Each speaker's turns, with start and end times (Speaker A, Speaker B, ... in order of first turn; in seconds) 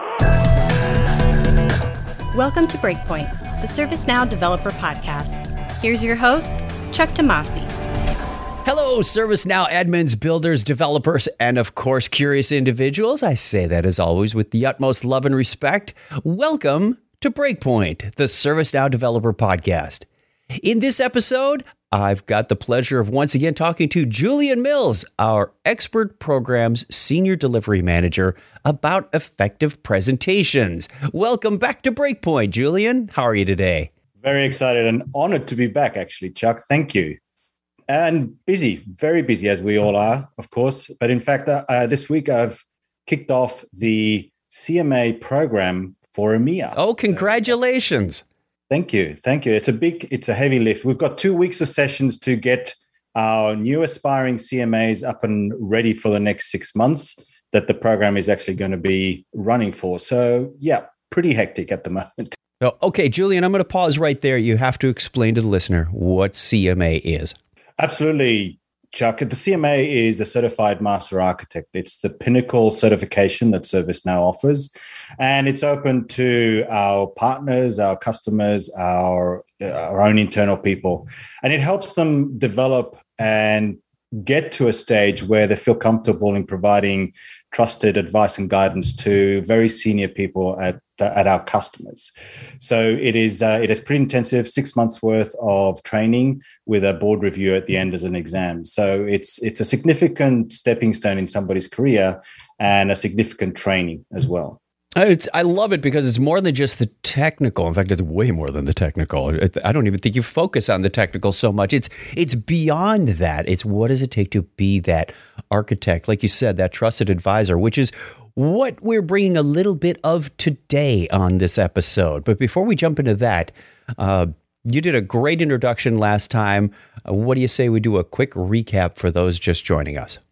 Speaker A: 2.3-7.7
Speaker B: 8.6-20.1, 20.6-33.9, 46.7-48.2, 62.6-67.3, 105.0-130.2
Speaker C: 34.2-37.2, 37.9-47.4, 48.7-62.4, 67.8-104.6